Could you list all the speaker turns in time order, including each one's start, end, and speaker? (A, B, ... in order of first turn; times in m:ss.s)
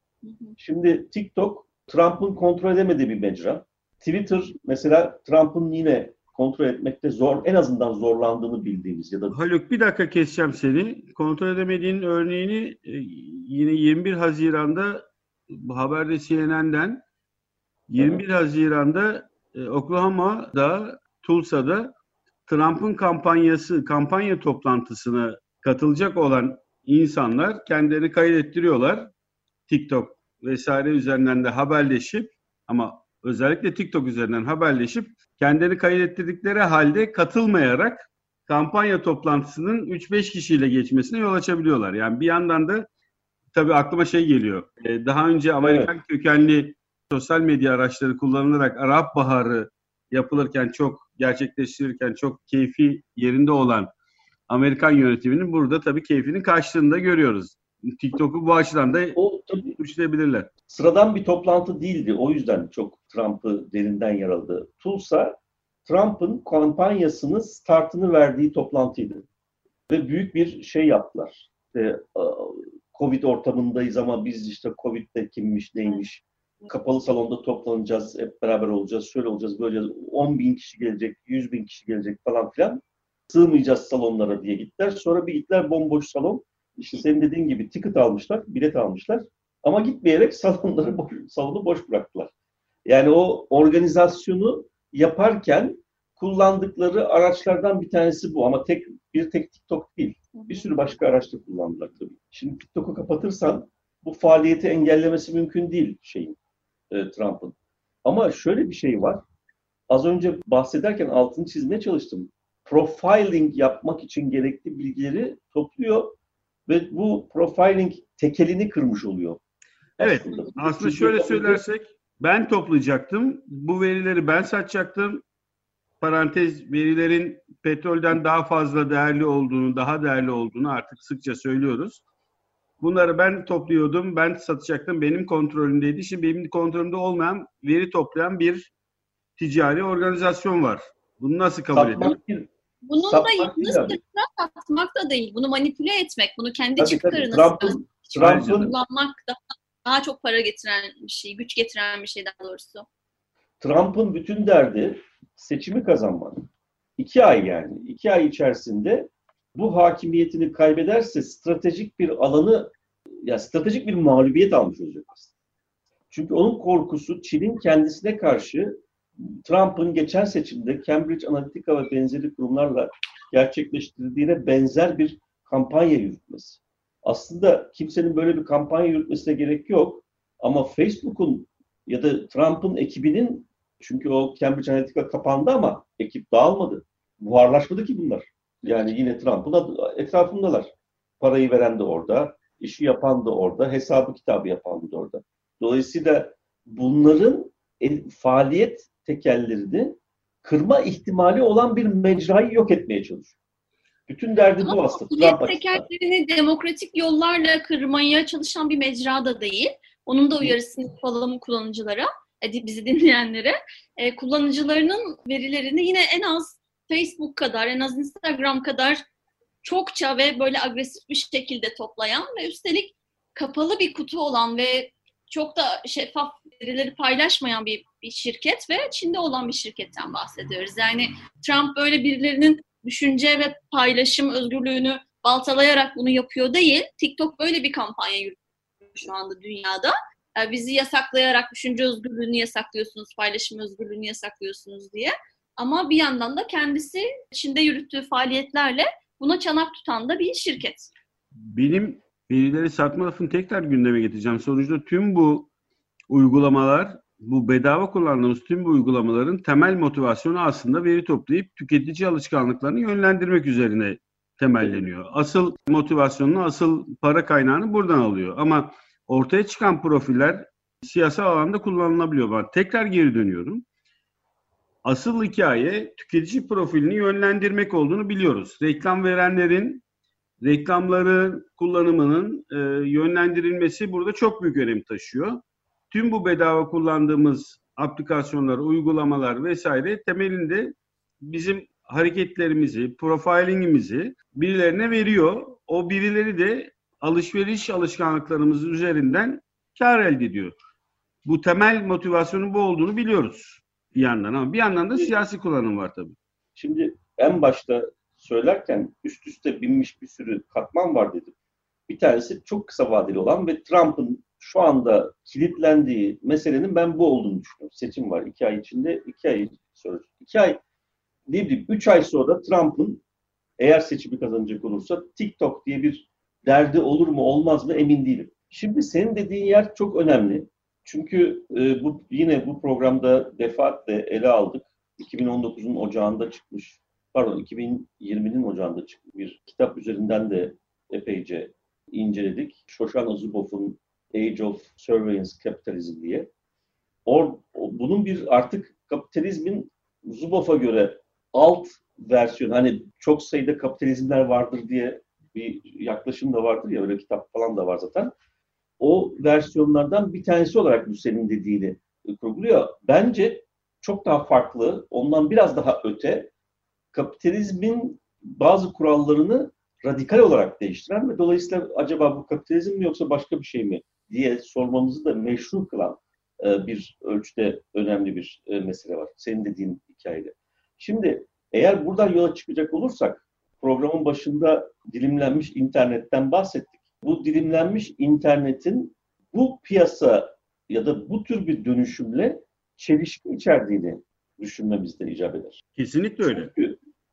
0:00.2-0:00.6 A
0:00.6-0:09.4 B
0:09.3-0:17.0 C
0:17.9-0:22.0 C
0:22.5-0:29.1 C
0:29.7-0:42.9 C
0:43.5-0:53.9 C
0:45.6-0:45.9 B
0:54.5-0:59.2 C
0:59.2-0:59.8 B
0:59.8-1:00.5 C
1:00.7-1:09.3 B
1:09.9-1:32.3 B
1:32.9-1:46.4 B
1:40.3-1:40.7 A
1:46.9-1:49.2 B
1:49.9-1:56.2 B
1:56.7-1:59.4 B
2:00.0-2:01.6 B
2:00.0-2:05.2 C
2:06.0-2:12.0 C
2:12.8-2:18.7 C
2:19.4-2:22.2 C
2:21.7-2:22.5 B
2:22.9-2:32.8 A
2:23.0-2:24.0 B
2:26.8-2:28.7 B
2:28.2-2:28.7 C
2:33.6-2:42.7 B
2:43.2-2:45.3 B
2:46.1-3:23.3 B
3:24.1-3:25.8 B
3:24.6-3:39.0 A
3:39.6-3:58.4 A
3:58.9-4:10.9 A
4:11.5-4:15.5 C
4:16.1-4:33.6 C
4:34.8-4:39.8 C
4:40.4-4:45.4 C
4:45.9-5:00.5 C
5:01.2-5:06.2 C
5:06.6-5:11.3 B
5:11.9-5:20.6 B
5:21.3-5:23.0 B
5:23.6-5:46.3 B
5:47.1-5:58.1 B
5:58.8-6:06.3 B
6:06.9-6:35.6 B
6:35.8-6:36.5 C
6:36.3-6:36.8 B